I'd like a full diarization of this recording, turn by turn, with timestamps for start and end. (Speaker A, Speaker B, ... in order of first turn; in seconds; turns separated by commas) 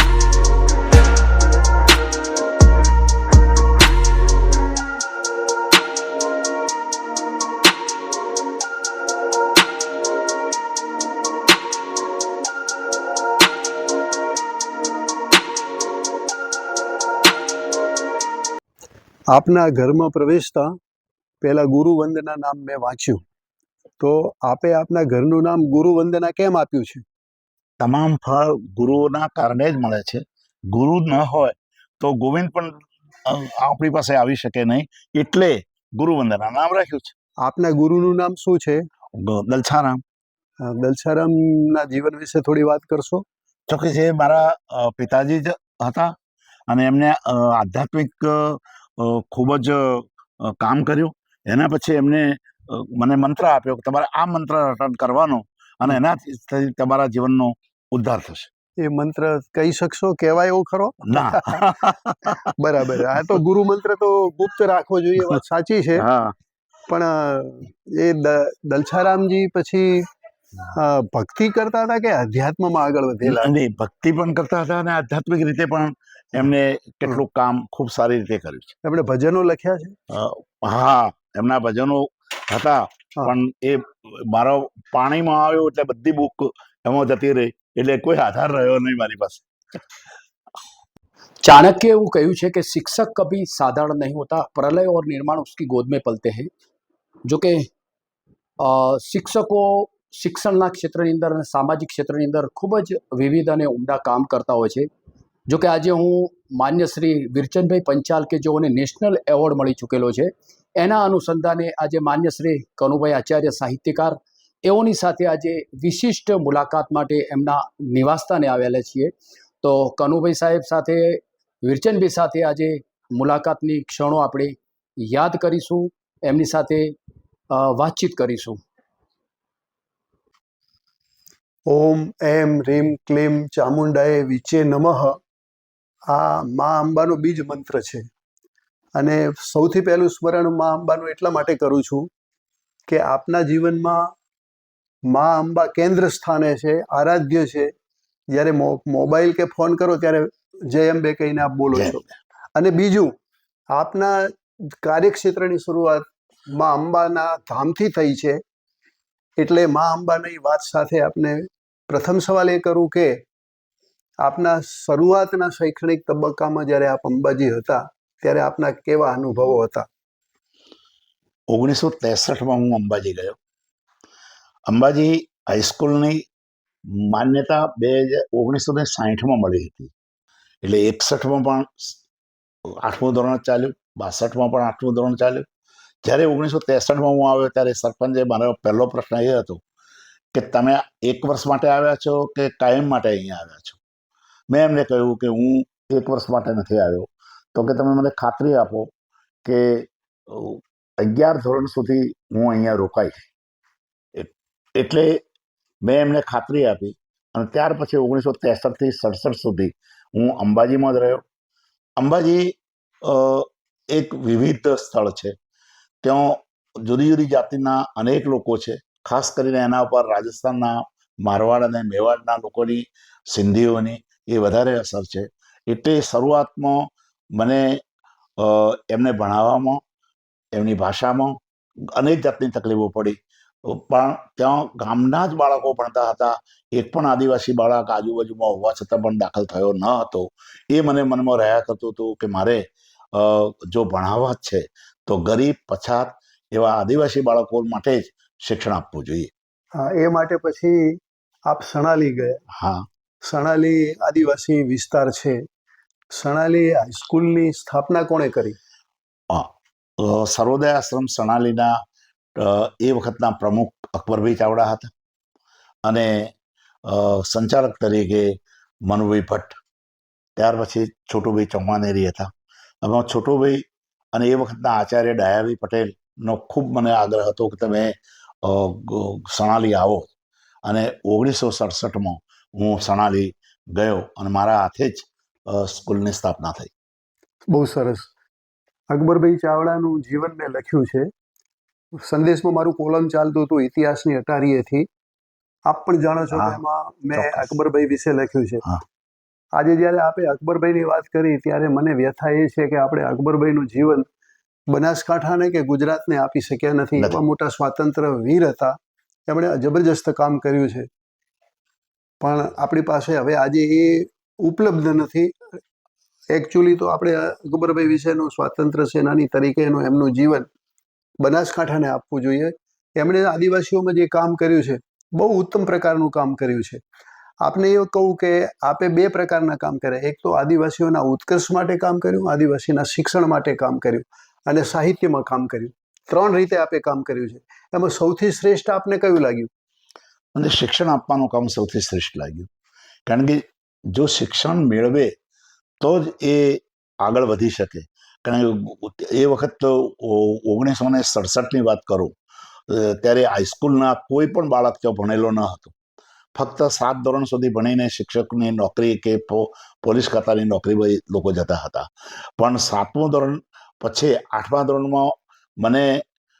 Speaker A: 19.3-20.8, Speaker A: 21.4-23.2, Speaker A: 24.0-27.0, Speaker B: 27.8-37.1, Speaker A: 37.4-38.8, Speaker B: 39.1-40.0, Speaker A: 40.6-43.2, Speaker B: 43.7-46.1, Speaker B: 46.7-58.5, Speaker A: 58.8-61.6, Speaker B: 61.0-63.4, Speaker A: 62.5-66.0, Speaker B: 66.0-66.3, Speaker A: 66.9-70.1, Speaker A: 70.7-73.5, Speaker B: 73.2-78.7, Speaker A: 78.8-80.0, Speaker B: 80.1-89.5, Speaker C: 91.4-96.5, Speaker C: 97.2-97.7, Speaker C: 98.6-104.9, Speaker C: 105.5-126.9, Speaker C: 127.5-128.6, Speaker A: 131.7-135.2, Speaker A: 136.1-138.1, Speaker A: 139.0-142.1, Speaker A: 142.9-144.1, Speaker A: 145.1-147.7, Speaker A: 148.3-152.0, Speaker B: 151.7-152.2, Speaker A: 152.6-153.1, Speaker A: 153.7-154.3, Speaker A: 154.8-158.4, Speaker A: 159.4-163.2, Speaker A: 164.2-169.9, Speaker B: 171.5-173.4, Speaker B: 174.7-176.2, Speaker B: 176.9-179.9, Speaker B: 180.6-182.0, Speaker B: 182.7-185.4, Speaker B: 186.0-189.6, Speaker B: 190.3-193.8, Speaker B: 194.5-198.9, Speaker B: 199.4-203.2, Speaker B: 204.1-205.2, Speaker B: 205.8-211.2, Speaker B: 212.0-215.3, Speaker B: 216.0-227.8, Speaker B: 228.4-229.8, Speaker B: 230.5-231.4, Speaker B: 231.9-249.3, Speaker A: 249.8-250.8, Speaker A: 251.5-252.4, Speaker B: 252.5-252.9, Speaker A: 253.2-255.4, Speaker A: 256.1-258.6, Speaker B: 259.3-261.8, Speaker B: 262.4-264.9, Speaker B: 265.9-266.3, Speaker B: 266.8-268.3, Speaker B: 268.9-269.6, Speaker B: 270.4-272.3, Speaker B: 272.8-273.6, Speaker B: 274.1-280.1, Speaker B: 280.6-286.7, Speaker A: 287.5-288.1, Speaker A: 288.9-291.1, Speaker A: 292.0-294.9, Speaker A: 295.7-298.7, Speaker B: 296.3-296.6, Speaker B: 297.1-297.5, Speaker A: 299.5-304.1, Speaker A: 304.7-308.8, Speaker A: 309.3-310.9, Speaker A: 312.2-315.6, Speaker A: 316.3-320.5, Speaker A: 321.2-326.8, Speaker A: 327.4-339.5, Speaker B: 340.3-342.5, Speaker B: 343.1-345.1, Speaker B: 345.8-352.1, Speaker B: 352.7-355.7, Speaker B: 356.4-366.0